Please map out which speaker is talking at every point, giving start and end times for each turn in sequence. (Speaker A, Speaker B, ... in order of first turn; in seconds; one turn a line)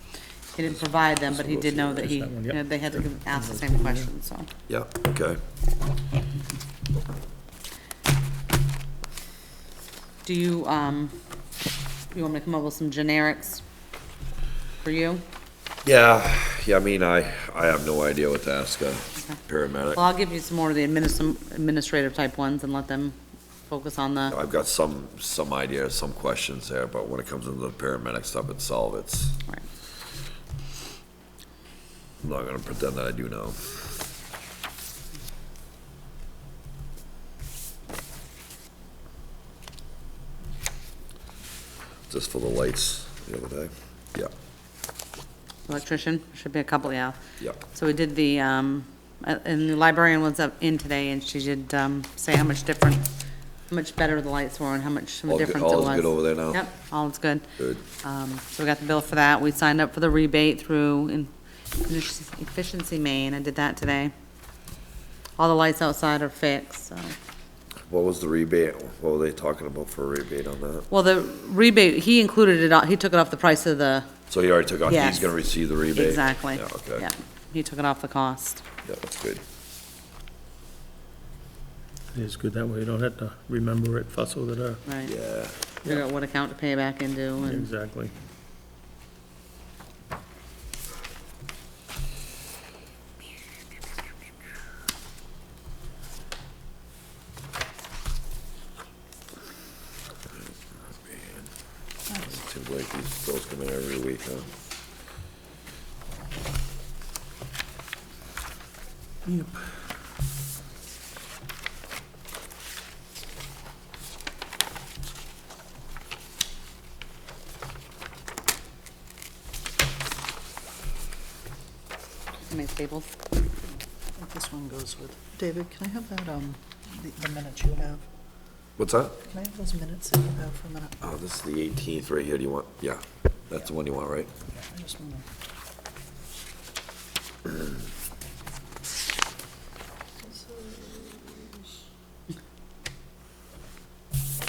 Speaker A: 0.5-4.5
Speaker B: 0.7-2.1
Speaker C: 2.0-4.1
Speaker B: 4.7-5.4
Speaker A: 10.2-11.1
Speaker A: 12.1-13.6
Speaker A: 14.8-15.2
Speaker B: 15.8-20.0
Speaker A: 19.9-23.1
Speaker A: 23.7-24.3
Speaker B: 24.3-29.3
Speaker B: 32.2-33.9
Speaker B: 42.1-44.3
Speaker A: 45.7-53.0
Speaker A: 53.7-57.5
Speaker B: 55.3-56.6
Speaker A: 58.0-61.3
Speaker A: 61.8-64.1
Speaker A: 65.4-67.1
Speaker B: 67.8-70.9
Speaker A: 70.9-74.1
Speaker B: 74.3-77.0
Speaker A: 74.9-75.3
Speaker A: 75.9-78.6
Speaker B: 78.8-79.4
Speaker C: 82.1-84.8
Speaker A: 84.8-85.1
Speaker B: 85.0-85.7
Speaker A: 85.8-87.7
Speaker C: 87.4-88.1
Speaker B: 100.7-101.5
Speaker B: 102.2-104.5
Speaker C: 109.2-109.5
Speaker A: 122.5-123.1
Speaker D: 124.2-128.1
Speaker B: 128.8-129.2
Speaker D: 129.3-130.9
Speaker B: 131.0-134.3
Speaker D: 134.5-135.2
Speaker D: 140.2-141.6